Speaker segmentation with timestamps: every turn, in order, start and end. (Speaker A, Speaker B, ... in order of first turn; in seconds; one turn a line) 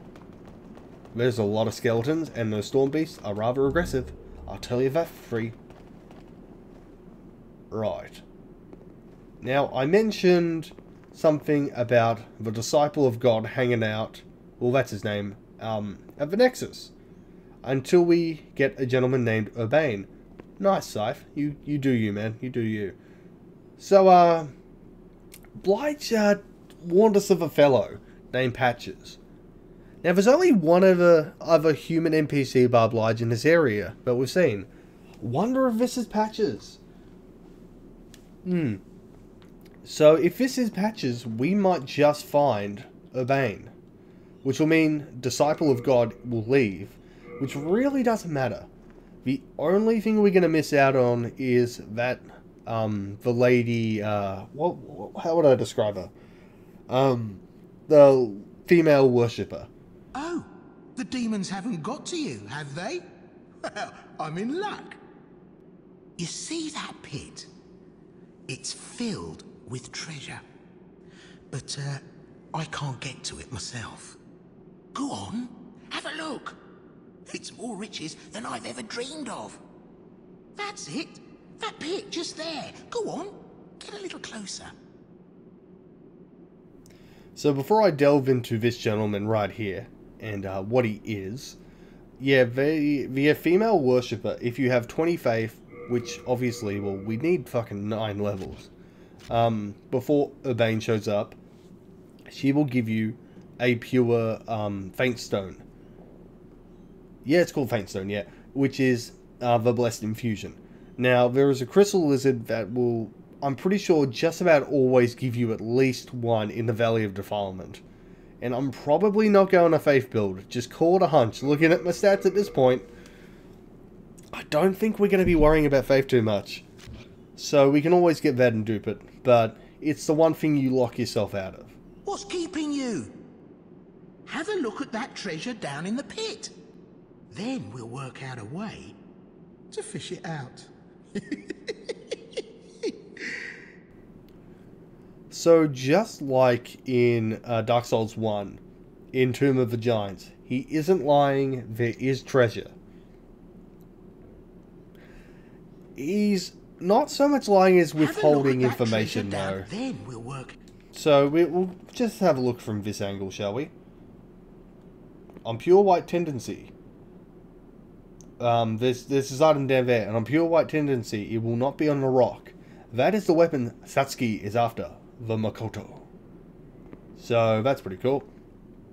Speaker A: 1.1-5.6
Speaker A: 7.7-8.2
Speaker A: 9.4-16.9
Speaker A: 17.6-23.0
Speaker A: 23.8-24.5
Speaker A: 25.6-29.2
Speaker A: 30.0-34.7
Speaker A: 35.2-36.8
Speaker A: 38.4-38.8
Speaker A: 39.8-43.7
Speaker A: 44.4-48.7
Speaker A: 49.2-56.1
Speaker A: 56.9-59.7
Speaker B: 60.1-63.0
Speaker B: 63.6-65.0
Speaker B: 66.2-67.5
Speaker B: 68.5-70.4
Speaker B: 71.5-74.2
Speaker B: 74.9-76.6
Speaker B: 77.3-79.6
Speaker B: 80.5-84.7
Speaker A: 87.3-91.6
Speaker A: 92.2-98.7
Speaker A: 99.3-101.4
Speaker A: 102.3-105.6
Speaker A: 107.2-117.8
Speaker A: 118.4-122.9
Speaker A: 124.3-126.6
Speaker A: 127.3-131.8
Speaker B: 132.0-133.2
Speaker B: 134.2-136.6
Speaker B: 137.3-139.0
Speaker B: 139.7-143.5
Speaker A: 145.3-148.6
Speaker A: 149.1-152.7
Speaker A: 155.9-159.7
Speaker B: 157.9-160.6
Speaker A: 160.9-163.7
Speaker A: 165.4-166.7
Speaker A: 168.4-176.1
Speaker A: 177.2-178.3